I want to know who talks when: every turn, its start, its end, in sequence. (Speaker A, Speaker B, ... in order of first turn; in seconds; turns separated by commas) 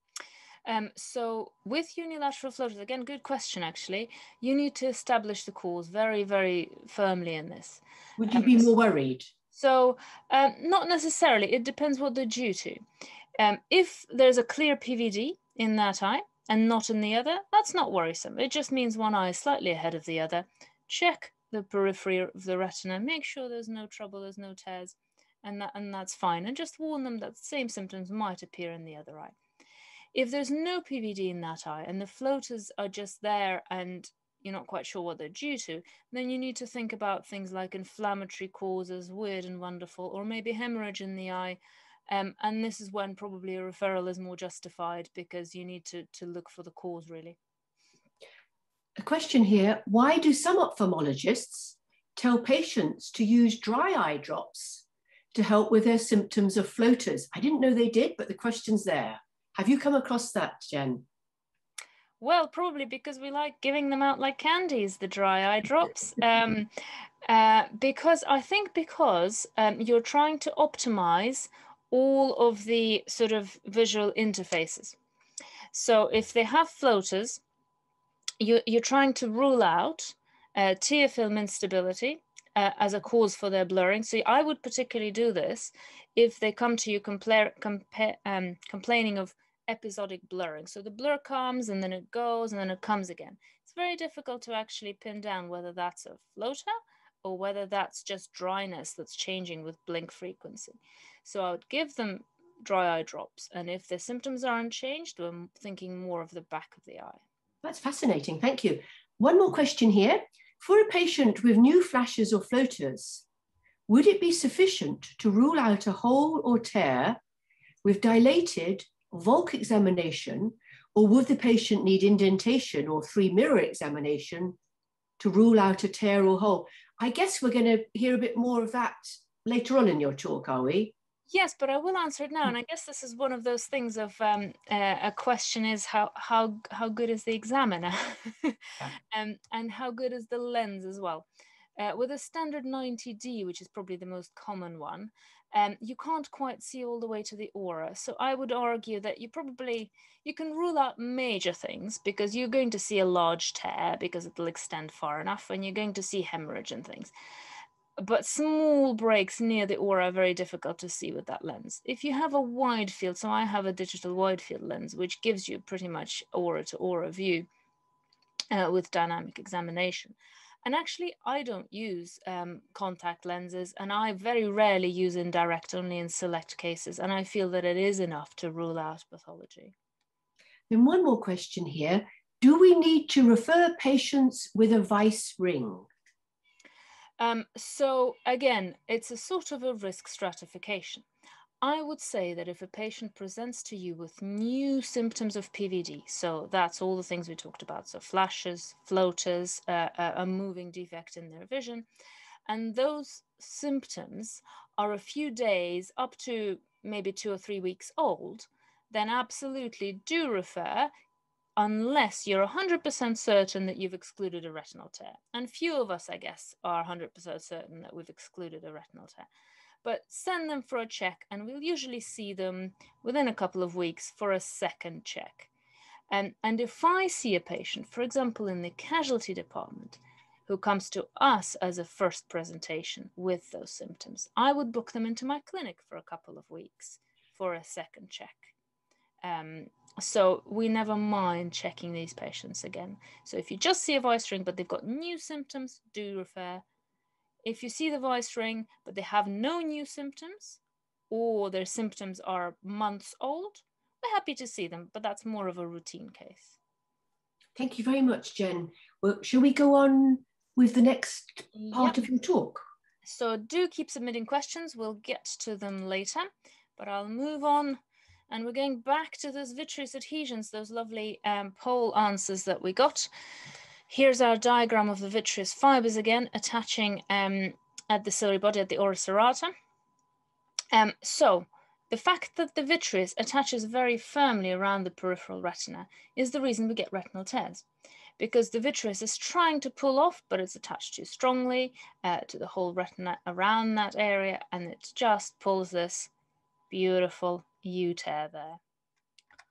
Speaker A: 0.7-8.7, Speaker B: 8.2-9.3, Speaker A: 9.5-12.8, Speaker A: 13.4-29.3, Speaker A: 30.1-41.6, Speaker A: 42.1-47.4, Speaker B: 49.0-61.0, Speaker A: 62.2-66.7, Speaker A: 67.2-75.0, Speaker A: 75.7-77.4, Speaker A: 78.4-96.7, Speaker A: 97.2-107.2, Speaker B: 107.6-113.2, Speaker B: 113.9-117.2, Speaker B: 117.8-124.5, Speaker B: 125.2-130.9, Speaker A: 131.3-141.2, Speaker A: 141.8-157.1, Speaker A: 158.0-167.5, Speaker A: 168.5-179.7, Speaker B: 180.7-185.9, Speaker A: 187.2-191.1, Speaker A: 191.6-201.8, Speaker A: 202.5-210.9, Speaker A: 211.6-219.3, Speaker A: 219.8-225.5, Speaker A: 226.1-238.5, Speaker A: 239.2-246.6, Speaker A: 247.4-256.6, Speaker B: 257.6-262.6, Speaker A: 261.5-262.0, Speaker A: 263.0-267.8, Speaker A: 268.3-273.1, Speaker A: 273.9-279.5, Speaker A: 280.7-287.6, Speaker A: 288.2-296.1, Speaker A: 296.7-298.6